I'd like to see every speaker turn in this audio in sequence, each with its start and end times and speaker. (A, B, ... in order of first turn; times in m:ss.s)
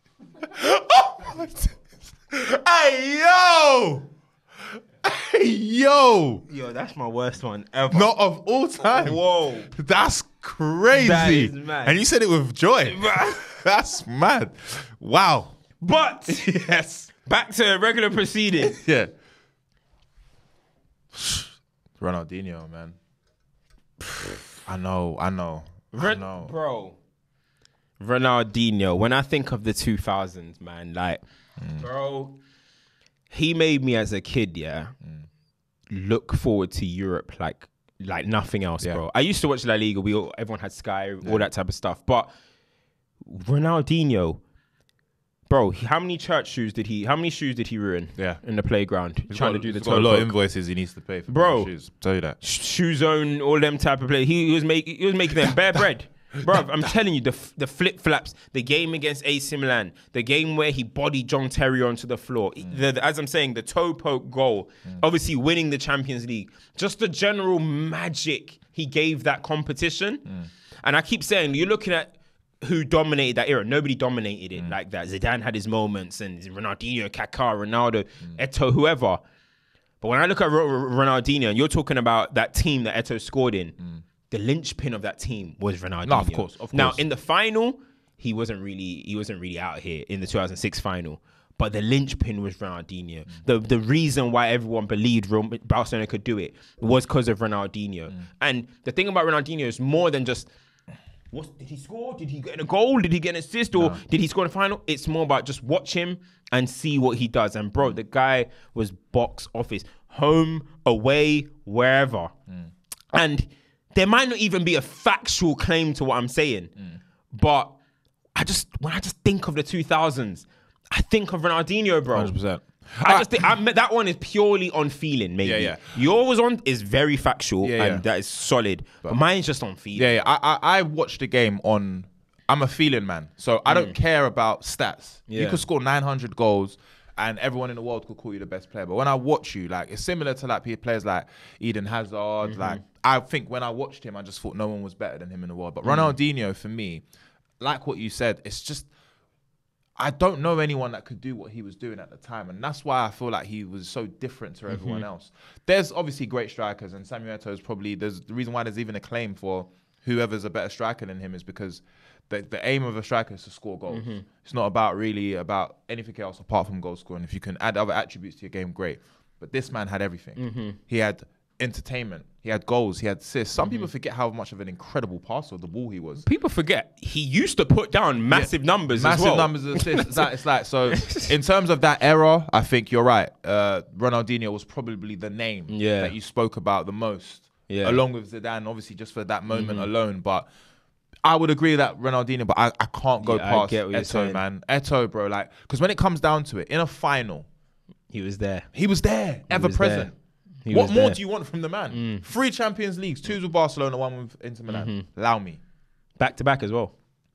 0:00.4-0:04.1 A
0:05.0-0:06.4 A
0:06.5-0:08.1 B
0:07.9-0:15.6 A
0:08.8-0:09.7 B
0:10.9-0:12.0 B
0:12.8-0:13.4 B
0:15.8-0:16.5 B
0:16.3-0:17.1 A
0:17.2-0:18.8 B
0:18.6-0:19.1 A
0:21.1-0:23.0 A
0:24.6-0:26.5 A
0:25.9-0:27.0 B
0:28.0-0:31.2 B
0:31.6-0:31.8 A
0:31.8-0:32.4 B
0:33.3-0:34.9 B
0:35.9-0:42.3 B
0:43.2-0:44.4 B
0:45.5-0:50.3 B
0:49.3-0:52.4 A
0:51.3-0:51.7 B
0:52.4-1:10.2 B
1:10.8-1:19.2 B
1:20.0-1:23.8 B
1:24.3-1:40.5 B
1:26.0-1:27.0 A
1:41.3-1:52.3 B
1:43.7-1:44.0 A
1:53.1-1:56.7 B
1:57.3-1:57.8 B
1:58.3-2:02.3 B
2:02.1-2:03.5 A
2:03.0-2:10.1 B
2:05.4-2:06.0 A
2:07.6-2:08.0 A
2:09.9-2:27.0 A
2:13.7-2:13.9 B
2:15.3-2:15.6 B
2:22.4-2:22.8 B
2:25.8-2:26.1 B
2:27.6-2:28.9 A
2:30.0-2:56.2 A
2:34.7-2:35.0 B
2:43.9-2:44.2 B
2:50.4-2:50.8 B
2:53.6-2:53.9 B
2:56.2-3:00.2 B
2:58.3-3:10.5 A
3:00.9-3:01.3 B
3:05.7-3:06.1 B
3:07.7-3:08.0 B
3:09.5-3:09.9 B
3:11.2-3:17.5 A
3:13.2-3:14.4 B
3:18.1-3:18.7 B
3:18.7-3:20.2 A
3:19.5-3:20.1 B
3:20.6-3:21.2 B
3:20.7-3:25.6 A
3:21.9-3:22.2 B
3:24.7-3:25.0 B
3:26.2-3:26.9 B